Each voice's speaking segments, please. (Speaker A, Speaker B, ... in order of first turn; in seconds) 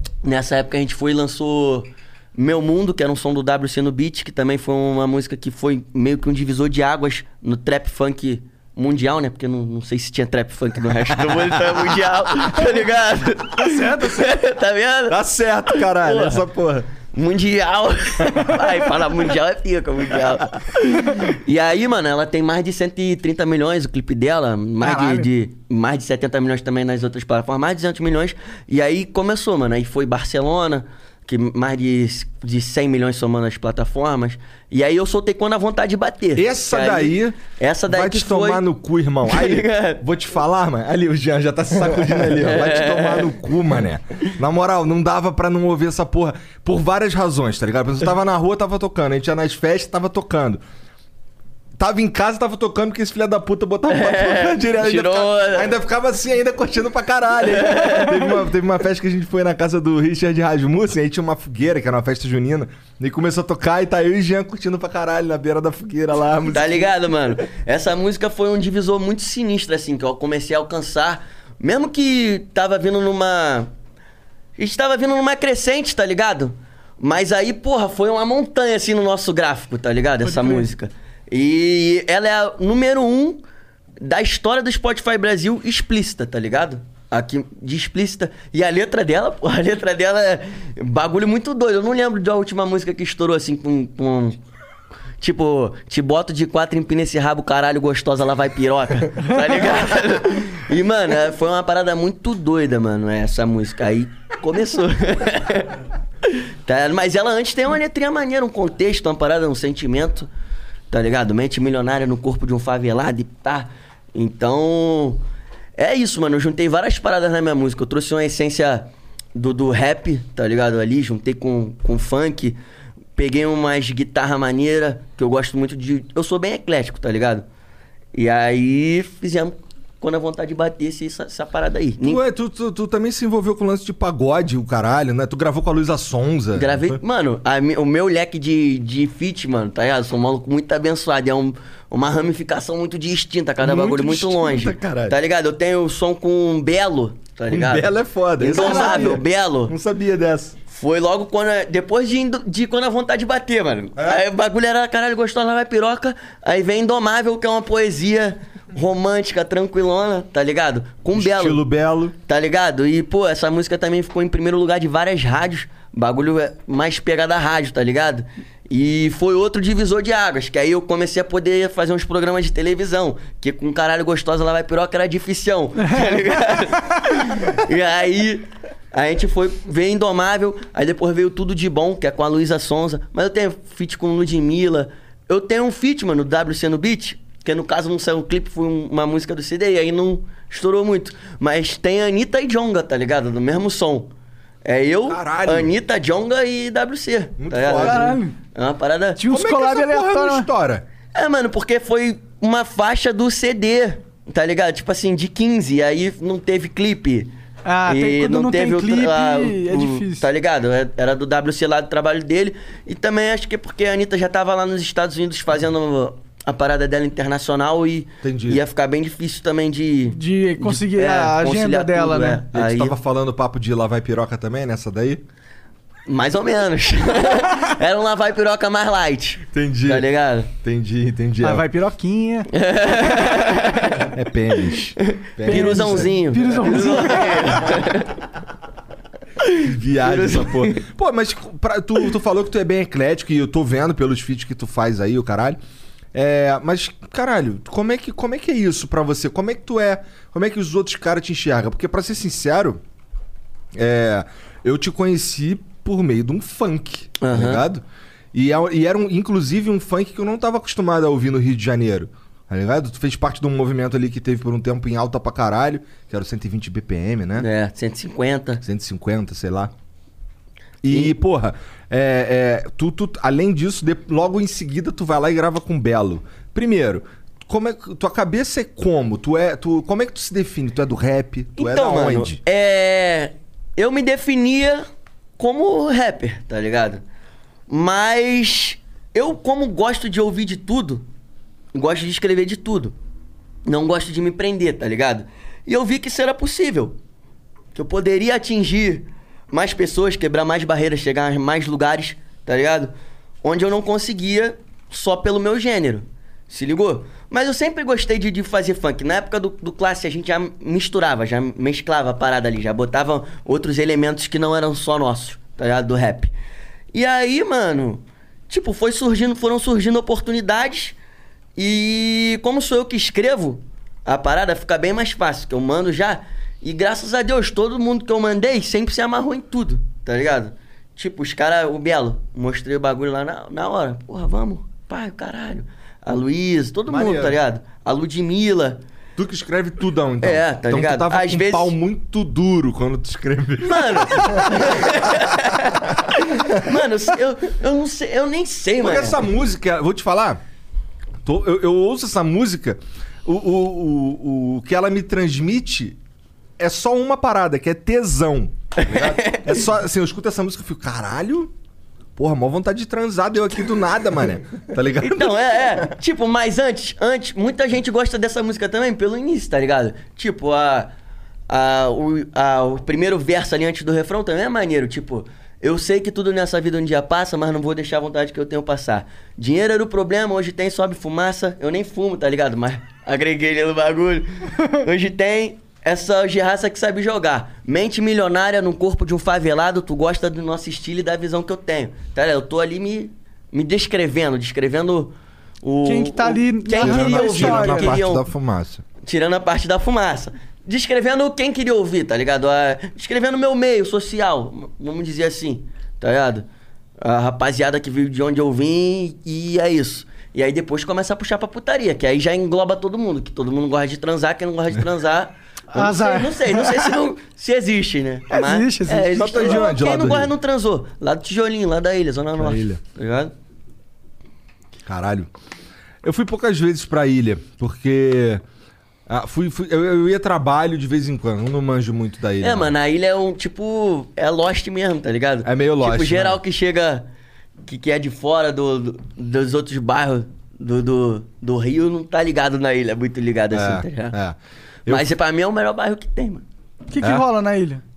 Speaker A: 0.2-15.2, 15.7-16.4, 17.1-38.6, 39.2-40.0, 42.2-43.4, 53.9-55.7, 57.5-58.4, 66.5-73.7, 74.6-83.4, 84.0-94.4, 95.2-110.3, 110.9-115.2, 115.8-122.6, 123.2-127.5, 128.1-132.2, 136.5-149.7, 150.7-161.6, 162.3-194.1, 194.6-199.2, 201.1-207.3, 207.8-222.9, 226.1-230.5, 232.5-234.1, 235.4-238.2, 239.4-240.8, 257.2-257.6, 267.4-268.6, 281.6-284.8, 285.4-287.0, 287.7-291.0, 291.7-292.9, 293.6-297.0, 297.7-316.3, 316.9-321.0, 321.6-338.8, 340.2-341.7, 343.6-349.2, 358.8-359.6, 365.0-370.9, 371.5-398.3, 399.0-406.4, 407.0-423.3, 432.4-437.1, 437.6-444.1, 444.9-446.4
Speaker B: 13.6-14.3, 24.8-25.3, 80.2-80.7, 148.6-149.1, 175.8-176.4, 197.8-198.3, 199.2-200.5, 207.7-210.3, 220.1-222.4, 231.4-232.5, 235.5-237.7, 395.8-398.0, 415.7-416.9, 418.3-419.6, 446.9-447.8
Speaker C: 15.1-16.9, 36.4-50.6, 51.8-66.9, 132.0-137.0, 143.6-145.2, 147.5-150.6, 153.9-154.2, 161.1-162.1, 195.1-195.7, 197.4-198.2, 199.3-200.8, 218.2-218.6, 222.5-225.2, 229.5-231.7, 234.1-236.7, 239.6-245.6, 246.1-252.8, 253.7-267.5, 268.6-269.7, 270.8-282.4, 336.9-337.4, 339.1-344.9, 348.8-350.4, 351.2-356.0, 356.6-361.5, 362.1-365.9, 396.8-398.8, 419.1-420.3, 422.4-422.8, 424.9-425.3, 426.0-428.4, 429.1-432.7, 435.4-436.4, 443.5-445.1, 447.0-447.2